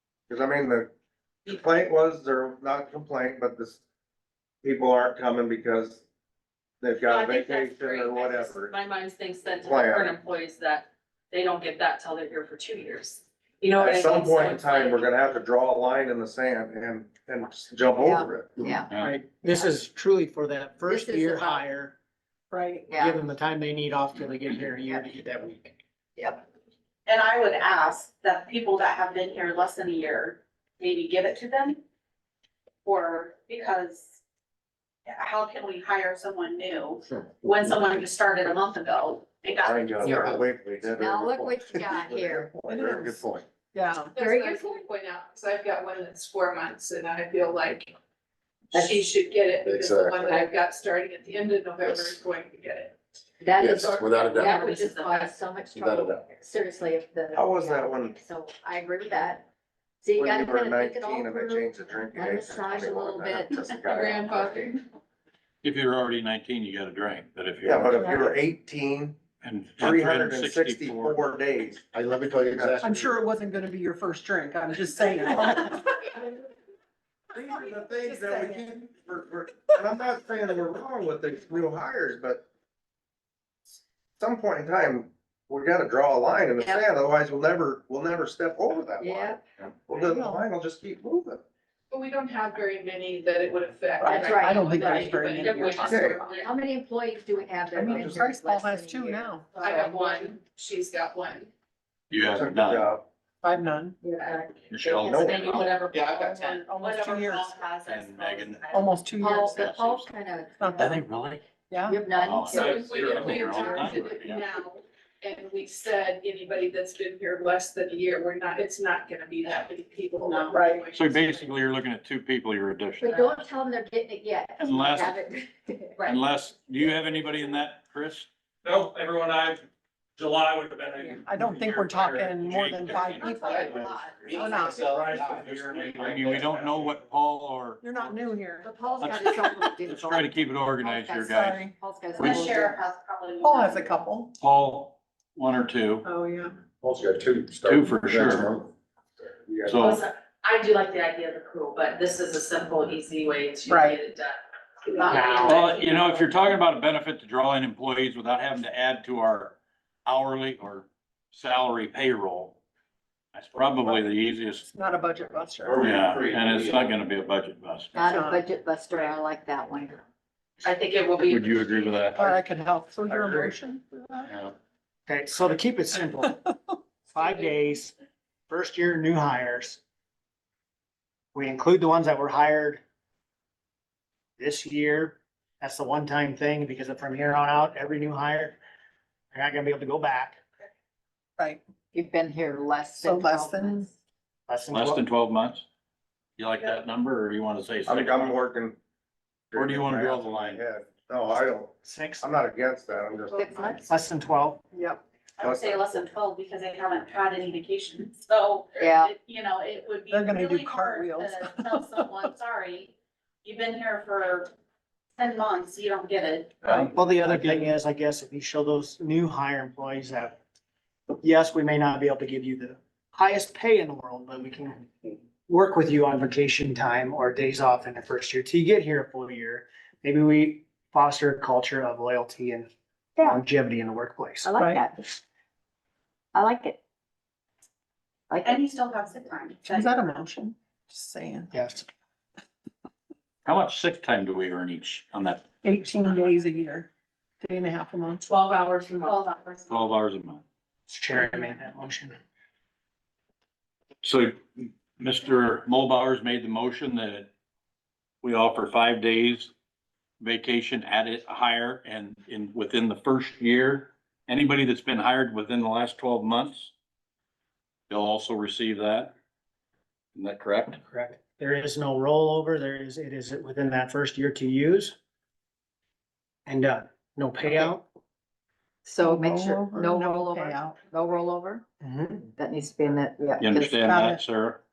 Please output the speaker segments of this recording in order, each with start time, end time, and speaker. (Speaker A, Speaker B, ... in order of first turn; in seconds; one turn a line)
Speaker A: 0.3-0.9
Speaker A: 1.4-3.8
Speaker A: 4.6-6.0
Speaker A: 6.8-8.7
Speaker B: 7.0-15.1
Speaker A: 9.4-10.2
Speaker A: 13.8-18.6
Speaker C: 18.0-18.9
Speaker D: 18.9-19.2
Speaker E: 18.9-21.9
Speaker C: 20.9-21.6
Speaker F: 22.5-22.9
Speaker C: 22.9-23.2
Speaker E: 22.9-25.8
Speaker C: 26.1-26.4
Speaker G: 27.1-31.8
Speaker G: 32.8-34.2
Speaker G: 35.0-40.3
Speaker A: 39.6-43.5
Speaker C: 40.0-42.5
Speaker F: 42.6-43.2
Speaker F: 43.7-44.2
Speaker C: 44.1-44.8
Speaker H: 44.1-47.9
Speaker C: 48.7-49.1
Speaker H: 48.7-53.0
Speaker I: 49.6-50.3
Speaker I: 51.8-52.2
Speaker C: 53.4-59.5
Speaker I: 53.6-54.5
Speaker B: 54.3-55.4
Speaker I: 55.7-56.2
Speaker A: 57.3-58.2
Speaker C: 60.0-64.0
Speaker A: 60.1-64.7
Speaker H: 63.9-64.8
Speaker D: 65.6-67.9
Speaker A: 67.6-69.2
Speaker F: 67.9-68.3
Speaker D: 69.4-71.3
Speaker A: 69.8-72.8
Speaker I: 71.9-73.2
Speaker F: 72.8-76.0
Speaker A: 77.3-82.4
Speaker F: 77.4-78.7
Speaker A: 83.7-91.4
Speaker C: 89.0-89.4
Speaker F: 90.0-90.4
Speaker H: 91.9-96.4
Speaker F: 94.0-96.2
Speaker C: 94.1-94.9
Speaker B: 94.7-96.5
Speaker A: 95.8-96.2
Speaker C: 96.4-99.3
Speaker F: 97.7-100.0
Speaker A: 97.9-98.2
Speaker B: 99.5-100.3
Speaker H: 99.6-101.5
Speaker D: 102.1-102.9
Speaker A: 102.2-103.0
Speaker F: 103.4-104.0
Speaker C: 104.0-105.9
Speaker D: 104.7-105.7
Speaker A: 105.0-105.4
Speaker B: 105.1-109.4
Speaker F: 106.2-107.5
Speaker D: 107.8-108.7
Speaker F: 108.7-109.8
Speaker C: 109.2-111.0
Speaker D: 109.5-110.1
Speaker F: 110.6-111.0
Speaker D: 110.8-111.4
Speaker F: 111.7-112.0
Speaker C: 111.8-113.1
Speaker D: 112.2-114.4
Speaker H: 112.5-121.4
Speaker G: 120.2-120.6
Speaker F: 120.5-120.8
Speaker D: 120.9-123.1
Speaker C: 123.0-126.0
Speaker B: 123.0-123.4
Speaker D: 124.6-125.2
Speaker D: 126.0-128.3
Speaker J: 128.6-129.6
Speaker J: 130.2-131.2
Speaker F: 131.2-133.7
Speaker D: 131.6-133.8
Speaker B: 133.2-134.8
Speaker I: 133.4-133.8
Speaker I: 134.4-135.8
Speaker F: 134.4-135.0
Speaker J: 134.9-136.9
Speaker D: 134.9-137.8
Speaker F: 137.8-138.7
Speaker C: 138.6-142.8
Speaker D: 139.0-141.6
Speaker F: 139.3-139.8
Speaker F: 141.4-141.8
Speaker G: 142.1-143.9
Speaker D: 142.2-142.5
Speaker F: 143.4-144.3
Speaker D: 144.4-146.1
Speaker F: 146.0-146.6
Speaker I: 146.8-148.7
Speaker D: 147.6-148.6
Speaker I: 149.5-149.8
Speaker D: 149.7-150.0
Speaker B: 149.8-156.1
Speaker F: 153.7-154.0
Speaker E: 155.1-155.6
Speaker D: 155.4-162.6
Speaker D: 163.3-164.7
Speaker F: 164.6-165.8
Speaker D: 165.7-168.1
Speaker J: 165.8-166.9
Speaker C: 167.9-170.0
Speaker F: 168.0-168.5
Speaker B: 168.9-169.2
Speaker B: 170.6-172.1
Speaker D: 171.2-172.3
Speaker F: 172.1-174.3
Speaker D: 174.3-174.5
Speaker E: 175.1-176.4
Speaker E: 177.1-177.9
Speaker E: 178.5-179.8
Speaker E: 181.3-182.8
Speaker E: 184.4-188.6
Speaker E: 189.3-190.4
Speaker C: 191.9-193.9
Speaker F: 193.0-193.9
Speaker E: 194.5-195.0
Speaker D: 194.7-195.6
Speaker D: 196.4-198.4
Speaker A: 197.8-198.8
Speaker A: 199.5-203.8
Speaker D: 199.6-200.6
Speaker E: 201.8-202.3
Speaker C: 203.3-203.8
Speaker E: 203.8-204.7
Speaker F: 204.7-205.0
Speaker G: 205.4-214.5
Speaker A: 205.4-206.0
Speaker C: 208.8-209.1
Speaker F: 210.1-212.3
Speaker G: 215.2-216.7
Speaker F: 216.7-217.5
Speaker E: 216.9-220.4
Speaker E: 221.2-232.7
Speaker E: 233.2-234.6
Speaker C: 234.4-235.1
Speaker F: 234.6-234.9
Speaker C: 236.3-236.8
Speaker C: 238.3-238.6
Speaker G: 238.4-240.2
Speaker F: 239.6-241.5
Speaker E: 241.5-241.8
Speaker D: 243.4-245.5
Speaker F: 245.6-246.9
Speaker F: 247.4-248.3
Speaker B: 248.2-249.4
Speaker G: 249.1-249.8
Speaker D: 249.7-250.4
Speaker E: 250.9-252.2
Speaker D: 254.0-257.3
Speaker D: 258.2-259.5
Speaker D: 260.2-266.7
Speaker D: 267.9-269.1
Speaker D: 270.1-270.8
Speaker E: 270.8-274.9
Speaker E: 276.4-277.9
Speaker C: 278.8-281.6
Speaker F: 279.0-280.7
Speaker E: 281.8-282.3
Speaker C: 282.4-283.9
Speaker D: 283.4-284.6
Speaker F: 283.6-284.2